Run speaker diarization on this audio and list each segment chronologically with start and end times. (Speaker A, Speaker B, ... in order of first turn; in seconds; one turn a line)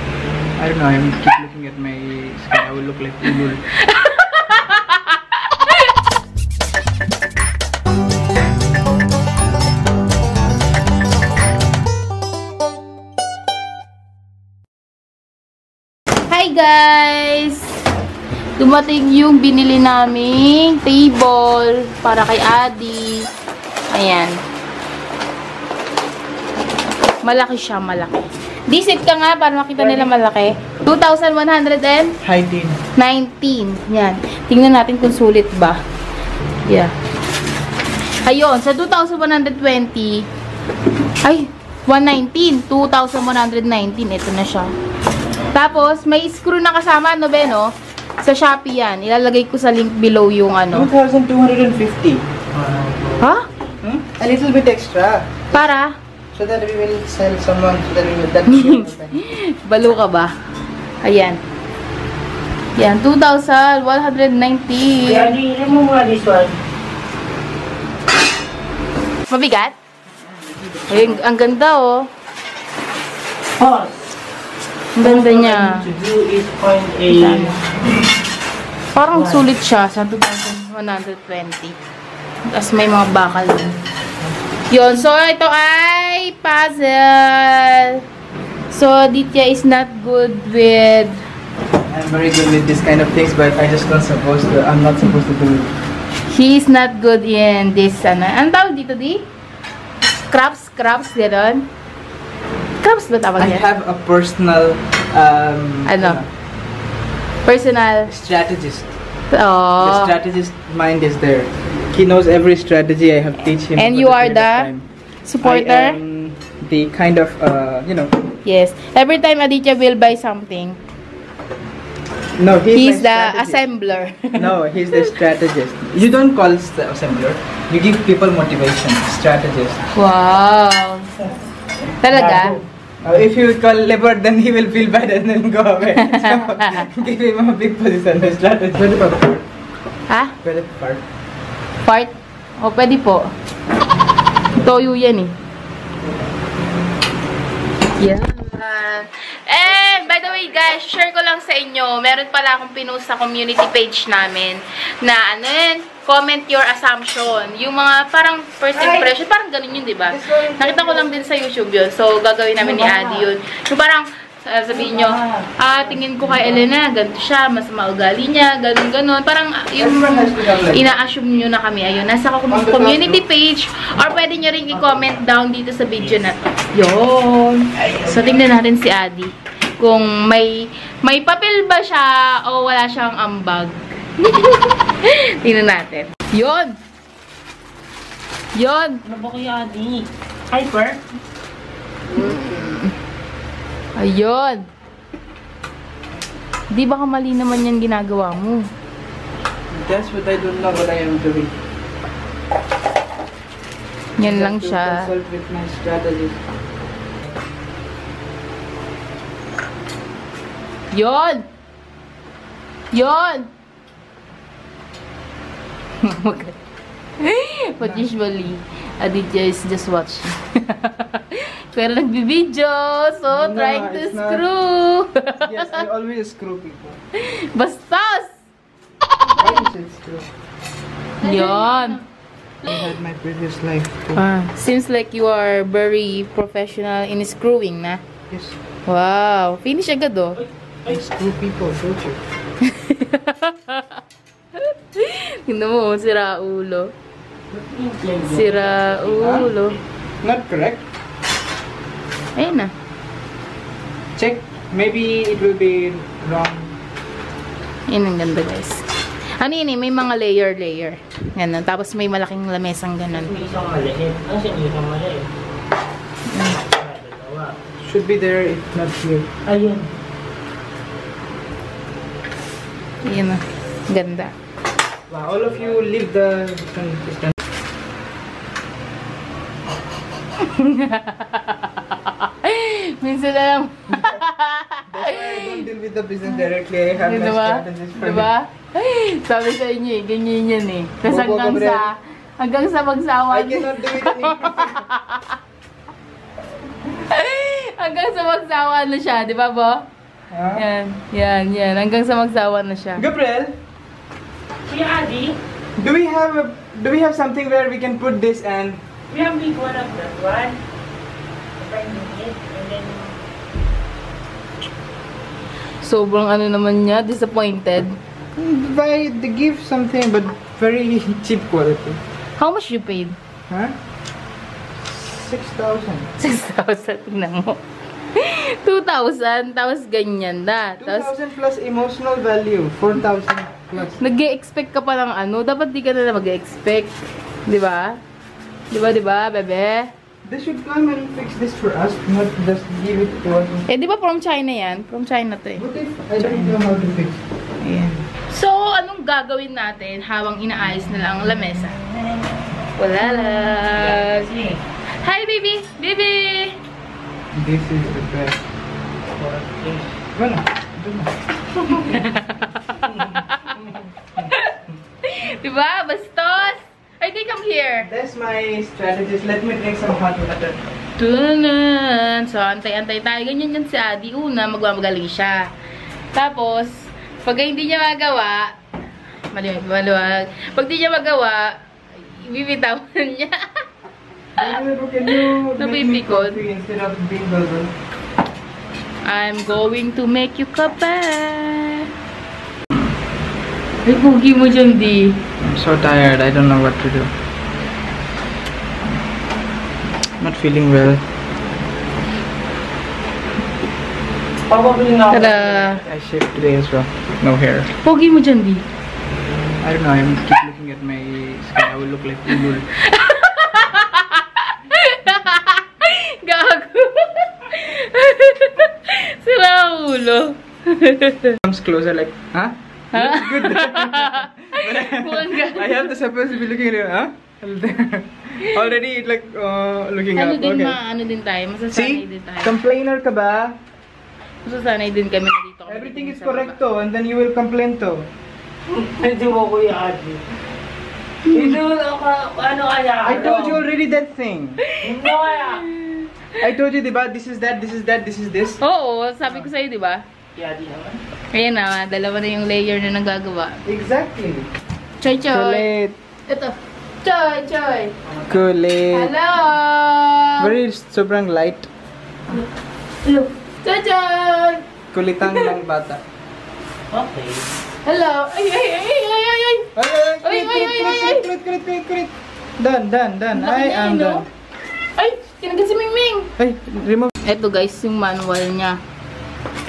Speaker A: 0.6-3.6
Speaker B: 3.4-5.9
Speaker B: 16.3-17.8
Speaker B: 18.6-23.3
Speaker B: 23.9-24.4
Speaker B: 27.2-32.2
Speaker A: 29.8-30.1
Speaker A: 32.2-32.8
Speaker B: 33.0-35.8
Speaker B: 36.6-36.9
Speaker B: 38.2-40.3
Speaker B: 41.2-44.7
Speaker B: 45.5-50.9
Speaker A: 50.7-52.2
Speaker C: 52.5-53.8
Speaker B: 53.2-53.5
Speaker A: 53.8-55.7
Speaker B: 55.5-56.0
Speaker A: 56.3-59.4
Speaker B: 58.5-60.3
Speaker B: 61.0-61.4
Speaker B: 62.8-65.3
Speaker C: 65.0-66.6
Speaker B: 69.3-69.8
Speaker A: 70.2-71.3
Speaker B: 70.9-72.1
Speaker C: 73.6-74.1
Speaker B: 75.0-75.9
Speaker C: 75.0-77.6
Speaker B: 77.1-77.9
Speaker B: 79.0-81.8
Speaker C: 79.1-79.4
Speaker B: 82.5-83.8
Speaker B: 84.7-88.0
Speaker B: 88.7-91.2
Speaker A: 91.9-95.8
Speaker B: 96.3-99.2
Speaker B: 100.3-101.7
Speaker B: 102.8-103.7
Speaker A: 103.4-106.3
Speaker B: 105.9-106.2
Speaker B: 107.5-108.1
Speaker A: 108.1-108.9
Speaker B: 109.3-110.1
Speaker A: 109.8-114.9
Speaker B: 113.8-114.7
Speaker B: 115.2-116.0
Speaker A: 115.4-118.1
Speaker B: 118.4-120.8
Speaker A: 122.4-123.7
Speaker B: 122.7-125.1
Speaker A: 124.3-129.8
Speaker B: 129.9-131.3
Speaker B: 132.0-132.6
Speaker A: 132.1-139.5
Speaker B: 136.0-136.9
Speaker B: 140.1-140.4
Speaker A: 140.4-141.0
Speaker B: 141.8-143.2
Speaker B: 144.6-145.3
Speaker B: 148.0-186.8
Speaker A: 149.9-150.4
Speaker A: 158.8-159.1
Speaker A: 160.1-161.2
Speaker C: 162.6-163.3
Speaker C: 164.7-166.6
Speaker A: 169.8-170.9
Speaker A: 172.5-173.2
Speaker C: 177.9-178.2
Speaker B: 188.6-189.0
Speaker C: 189.1-191.0
Speaker B: 192.1-192.9
Speaker A: 192.2-192.8
Speaker B: 193.9-194.7
Speaker B: 196.7-198.7
Speaker A: 199.7-201.5
Speaker B: 204.2-205.1
Speaker A: 204.2-206.4
Speaker B: 210.9-211.5
Speaker B: 212.9-213.5
Speaker B: 216.0-216.6
Speaker B: 217.2-225.8
Speaker A: 217.8-218.1
Speaker A: 223.3-224.5
Speaker A: 225.4-227.0
Speaker B: 227.2-228.4
Speaker A: 229.4-230.3
Speaker B: 231.2-232.0
Speaker A: 232.6-234.2
Speaker B: 234.1-238.0
Speaker A: 238.3-238.6
Speaker B: 238.9-240.4
Speaker C: 240.4-241.0
Speaker A: 240.9-242.2
Speaker B: 242.6-244.0
Speaker B: 244.6-246.9
Speaker C: 247.5-249.7
Speaker B: 248.2-249.8
Speaker A: 249.2-249.5
Speaker A: 250.2-250.9
Speaker B: 252.4-252.7
Speaker A: 254.2-256.8
Speaker B: 257.9-258.9
Speaker B: 259.4-263.5
Speaker C: 263.1-265.3
Speaker B: 266.3-266.6
Speaker C: 266.5-267.6
Speaker A: 267.8-269.3
Speaker C: 269.4-269.9
Speaker B: 273.0-274.3
Speaker A: 275.1-277.4
Speaker B: 280.4-285.7
Speaker A: 283.9-284.2
Speaker A: 284.9-288.3
Speaker B: 286.9-295.3
Speaker A: 291.0-291.9
Speaker A: 293.3-294.9
Speaker B: 296.9-299.9
Speaker A: 300.3-300.7
Speaker B: 300.5-303.1
Speaker A: 303.0-303.6
Speaker C: 304.6-305.4
Speaker A: 305.8-308.8
Speaker C: 309.1-310.6
Speaker C: 311.6-313.2
Speaker B: 315.8-318.0
Speaker A: 318.4-322.0
Speaker B: 322.4-323.2
Speaker A: 323.5-323.8
Speaker A: 324.9-326.1
Speaker B: 326.2-327.6
Speaker B: 328.1-331.1
Speaker A: 330.8-334.0
Speaker B: 334.0-338.0
Speaker B: 338.7-339.9
Speaker A: 340.2-343.7
Speaker B: 343.7-345.6
Speaker A: 345.6-347.2
Speaker B: 346.2-346.6
Speaker B: 347.6-351.8
Speaker B: 352.8-356.6
Speaker C: 353.5-354.6
Speaker A: 357.3-358.4
Speaker C: 359.2-359.9
Speaker A: 360.1-361.1
Speaker B: 361.6-363.6
Speaker B: 364.1-367.9
Speaker A: 367.8-370.6
Speaker B: 371.0-375.5
Speaker B: 376.1-378.6
Speaker B: 379.3-383.6
Speaker A: 384.4-387.7
Speaker B: 385.2-386.4
Speaker B: 389.0-391.9
Speaker B: 393.9-395.2
Speaker A: 395.4-397.1
Speaker A: 400.2-401.0
Speaker C: 404.5-405.8
Speaker B: 405.1-405.8
Speaker A: 405.8-407.7
Speaker B: 407.8-408.6
Speaker A: 409.6-412.7
Speaker B: 412.7-421.4
Speaker A: 421.4-430.8
Speaker B: 422.9-425.9
Speaker B: 430.1-432.6
Speaker A: 431.7-433.6
Speaker B: 434.4-436.6
Speaker A: 435.7-438.1
Speaker C: 438.7-440.2
Speaker C: 441.3-443.7
Speaker A: 443.0-444.6
Speaker B: 444.6-446.2
Speaker C: 444.8-445.7
Speaker A: 446.4-448.6
Speaker B: 448.6-450.1
Speaker C: 450.4-451.0
Speaker B: 451.3-453.6
Speaker A: 453.6-454.5
Speaker B: 455.0-455.7
Speaker A: 455.3-456.0
Speaker B: 456.3-457.9
Speaker C: 458.1-458.5
Speaker A: 458.3-459.1
Speaker B: 458.9-460.6
Speaker A: 460.4-461.7
Speaker B: 463.0-464.6
Speaker A: 464.9-466.0
Speaker B: 465.2-465.6
Speaker C: 466.9-467.5
Speaker B: 467.9-471.3
Speaker A: 469.8-474.3
Speaker B: 473.3-474.3
Speaker B: 474.9-476.3
Speaker A: 476.4-477.1
Speaker B: 477.2-478.8